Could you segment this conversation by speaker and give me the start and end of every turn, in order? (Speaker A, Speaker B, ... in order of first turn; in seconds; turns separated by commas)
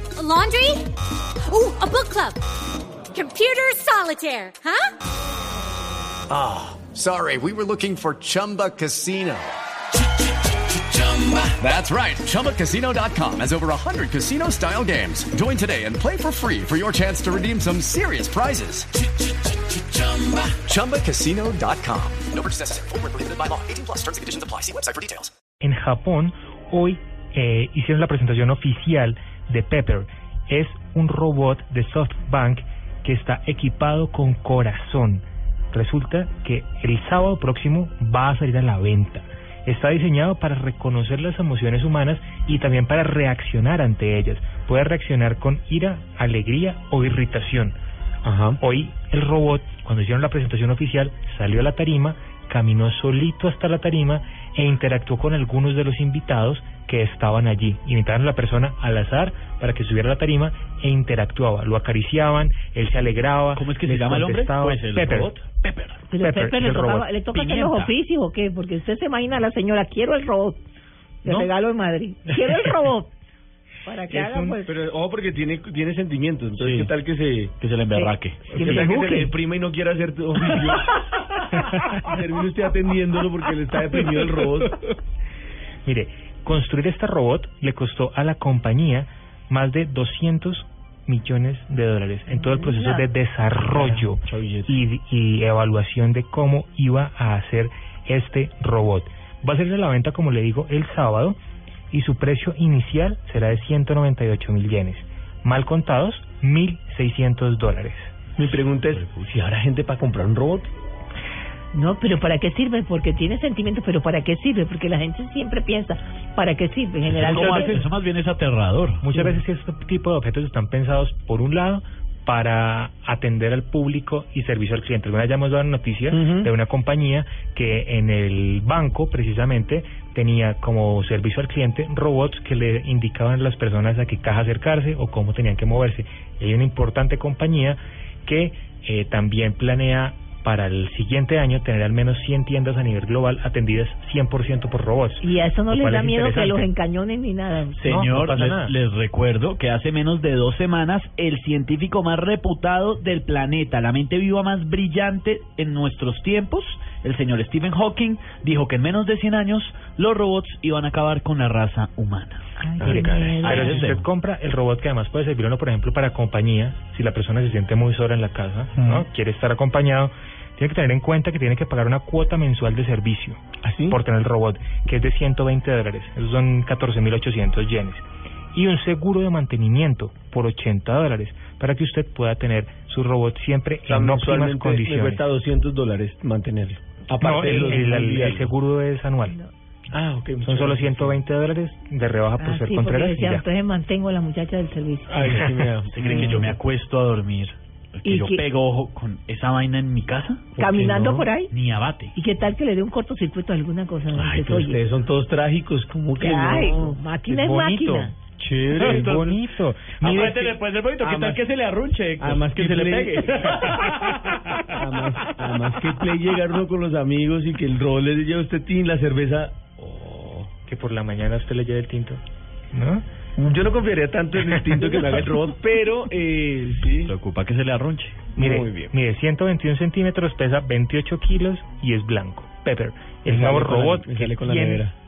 Speaker A: 0.1-0.8, Speaker A: 1.5-2.4, Speaker A: 3.1-4.9, Speaker B: 6.3-9.6, Speaker B: 10.9-25.3, Speaker C: 25.6-47.8, Speaker D: 48.2-48.6, Speaker C: 48.6-65.3, Speaker E: 63.5-66.0, Speaker F: 66.1-70.6, Speaker C: 66.2-67.1, Speaker E: 67.3-67.9, Speaker F: 71.2-73.1, Speaker F: 73.8-74.7, Speaker C: 74.1-74.5, Speaker D: 74.4-77.5, Speaker E: 76.6-76.9, Speaker E: 77.6-78.8, Speaker F: 77.9-79.3, Speaker D: 78.5-84.7, Speaker C: 85.8-101.4, Speaker F: 92.3-93.0, Speaker D: 93.6-94.7, Speaker C: 101.9-108.1, Speaker D: 108.4-110.7, Speaker F: 111.7-117.8, Speaker E: 117.0-119.2, Speaker C: 117.3-117.8, Speaker C: 119.0-146.7, Speaker D: 126.1-126.5, Speaker F: 145.2-147.9, Speaker E: 147.8-164.1, Speaker C: 147.8-148.8, Speaker F: 162.6-163.8, Speaker D: 162.8-163.4, Speaker C: 162.9-185.2, Speaker D: 168.8-169.1, Speaker D: 173.6-174.0, Speaker D: 183.9-188.5, Speaker C: 187.2-189.4, Speaker D: 189.9-191.2, Speaker C: 190.4-193.4, Speaker F: 192.4-195.3, Speaker D: 195.1-196.6, Speaker E: 195.2-200.6, Speaker C: 196.0-196.5, Speaker F: 198.0-198.4, Speaker D: 200.6-201.3, Speaker F: 200.6-201.5, Speaker E: 201.5-202.1, Speaker F: 202.1-204.8, Speaker D: 204.1-207.0, Speaker F: 206.2-208.2, Speaker C: 207.2-208.1, Speaker D: 208.4-209.1, Speaker E: 208.7-216.0, Speaker C: 208.8-210.5, Speaker D: 211.0-211.4, Speaker D: 212.2-213.9, Speaker D: 214.7-220.5, Speaker C: 220.7-222.2, Speaker C: 222.7-223.0, Speaker D: 223.4-227.1, Speaker E: 226.9-228.2, Speaker D: 228.3-228.9, Speaker C: 228.3-234.8, Speaker D: 233.3-234.9